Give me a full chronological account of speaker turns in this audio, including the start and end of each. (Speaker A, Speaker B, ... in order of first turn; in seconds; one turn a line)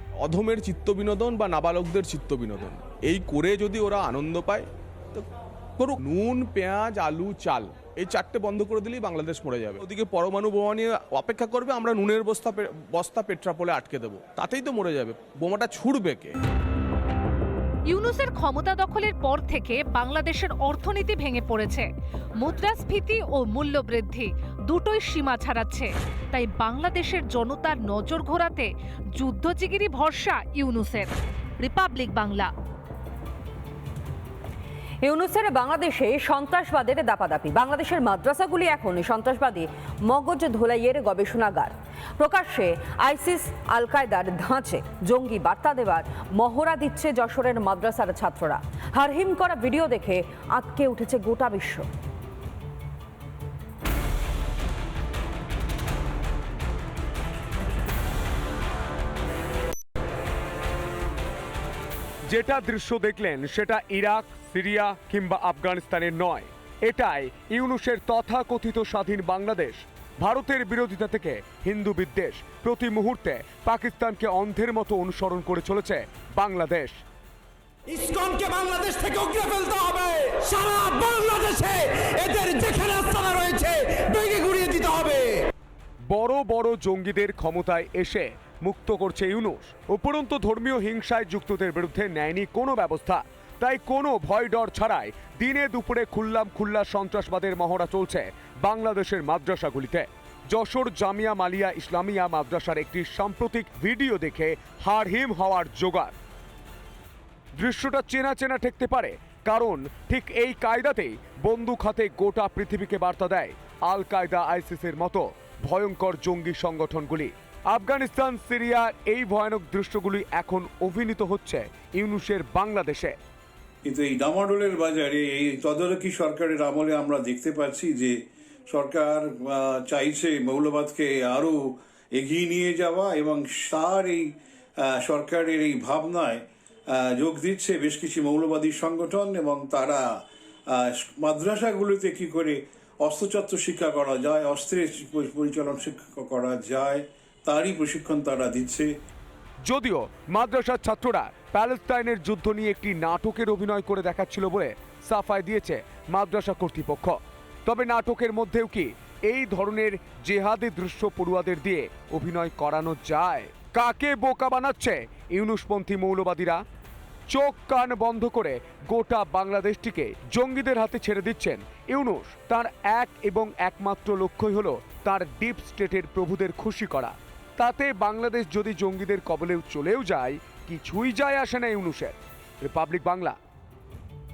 Speaker A: 0.2-5.3
Speaker A: 5.8-16.4
Speaker B: 17.9-21.9
Speaker B: 22.4-32.5
Speaker C: 35.0-51.9
Speaker D: 62.3-77.0
Speaker E: 77.9-85.5
Speaker D: 86.1-106.1
Speaker D: 107.6-123.2
Speaker F: 123.8-128.2
Speaker F: 128.7-131.6
Speaker F: 132.1-134.3
Speaker F: 134.8-136.4
Speaker F: 137.0-140.0
Speaker F: 140.7-148.9
Speaker D: 149.7-166.6
Speaker D: 167.3-183.4